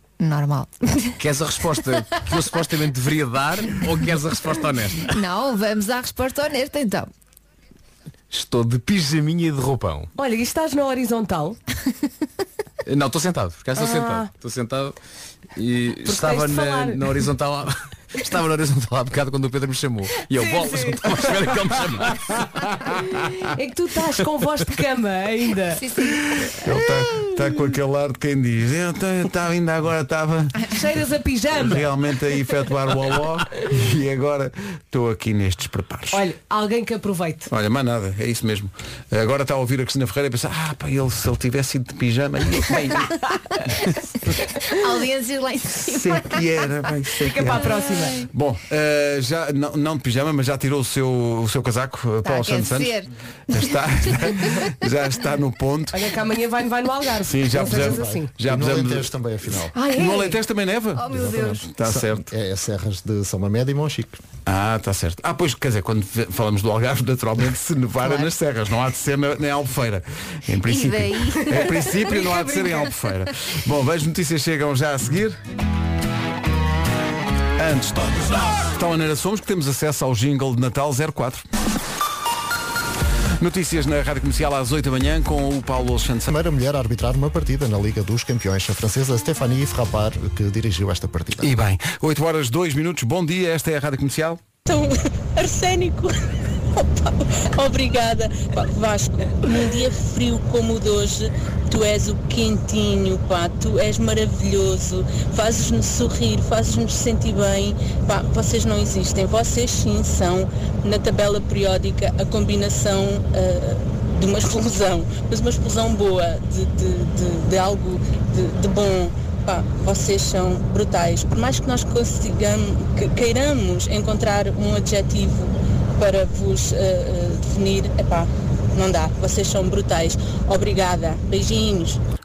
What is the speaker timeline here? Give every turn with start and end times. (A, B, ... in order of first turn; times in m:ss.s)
0:00.2-0:01.2 A
0:01.2-0:05.1 B
0:05.1-0:07.1 A
0:08.3-0:10.1 B
0:10.2-0:11.6 C
0:12.8-0:14.9 B
0:13.8-0:14.3 C
0:15.6-0:22.2 B
0:16.0-0:17.3 C
0:20.3-0:21.3 C
0:23.2-0:25.8 C
0:25.8-0:26.2 A
0:26.4-0:30.6 D
0:30.7-0:31.8 C
0:31.6-0:36.2 D
0:36.1-0:37.5 C
0:37.5-0:43.2 D
0:44.6-0:46.4 A
0:45.8-0:53.0 D
0:47.2-0:48.2 C
0:47.7-0:48.3 A
0:52.2-0:53.1 A
0:53.5-0:56.0 D
0:54.2-0:54.6 A
0:55.9-0:58.3 C
0:57.2-1:02.3 D
0:57.5-0:59.7 E
0:59.7-1:00.4 C
1:01.0-1:01.6 A
1:01.1-1:04.2 E
1:04.5-1:15.4 D
1:08.0-1:08.3 A
1:10.6-1:11.6 A
1:11.5-1:12.9 C
1:17.6-1:21.4 D
1:23.4-1:26.3 D
1:26.3-1:31.5 E
1:31.4-1:34.4 D
1:34.7-1:36.1 F
1:36.7-2:12.0 F